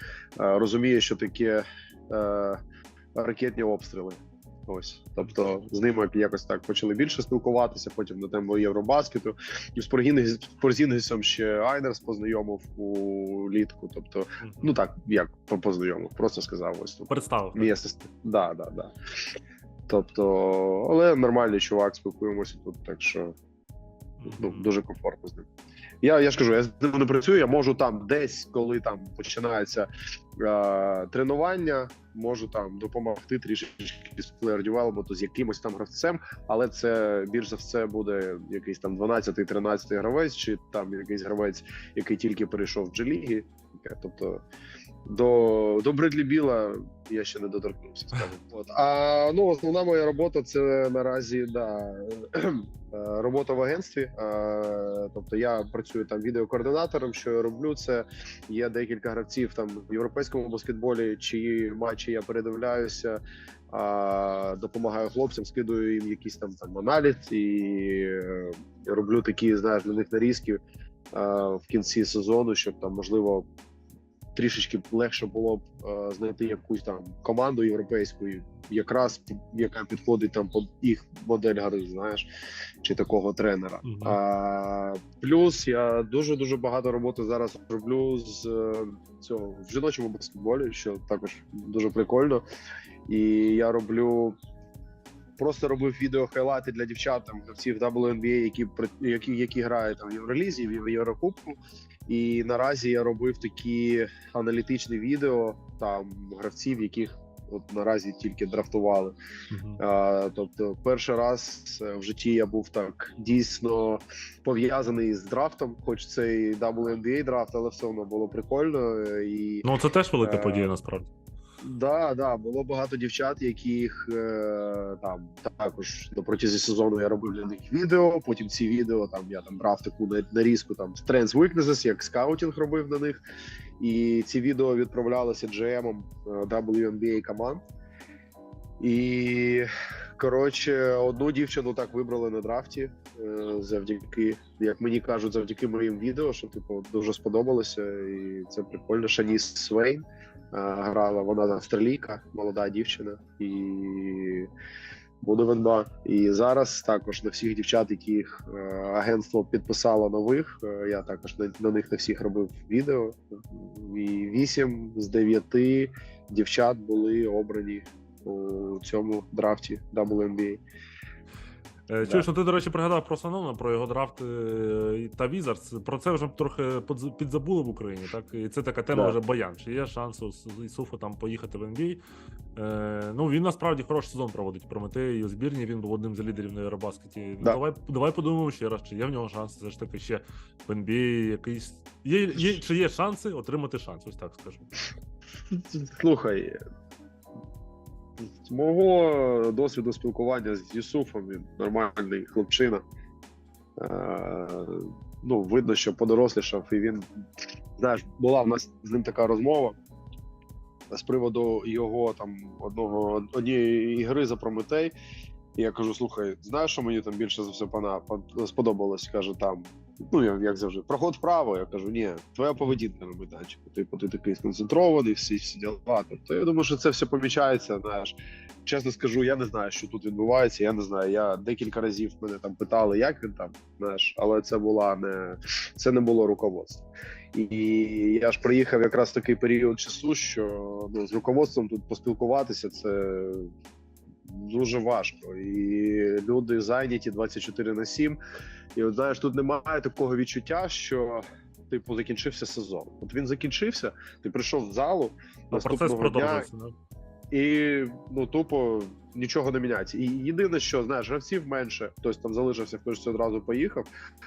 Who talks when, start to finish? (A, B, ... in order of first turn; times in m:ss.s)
0:00.4-0:02.6 A
0:03.1-0:18.9 A
0:14.4-0:14.7 B
0:17.1-0:17.7 B
0:19.9-0:23.4 A
0:24.2-0:24.7 B
0:24.3-0:25.5 A
0:26.0-0:44.4 A
0:45.0-1:10.6 A
1:11.1-1:13.4 A
1:14.4-1:22.3 A
1:22.8-1:32.4 A
1:23.8-1:24.2 B
1:33.1-1:34.4 A
1:35.4-1:49.1 A
1:49.5-1:49.8 B
1:49.8-1:59.7 A
1:59.6-2:01.1 B
2:00.2-2:00.7 A
2:01.6-2:13.2 A
2:13.8-2:17.6 A
2:18.8-2:19.7 A
2:20.2-2:34.5 A
2:35.2-2:50.6 A
2:51.9-3:02.0 B
2:52.0-2:52.3 A
3:02.6-3:14.8 B
3:15.5-3:16.6 A
3:18.2-3:22.8 A
3:23.8-3:27.0 A
3:27.8-3:29.8 A
3:30.9-3:34.9 A
3:35.6-4:03.5 A
4:04.2-4:08.2 A
4:08.8-4:16.5 A
4:15.5-4:16.8 B
4:17.3-4:23.9 A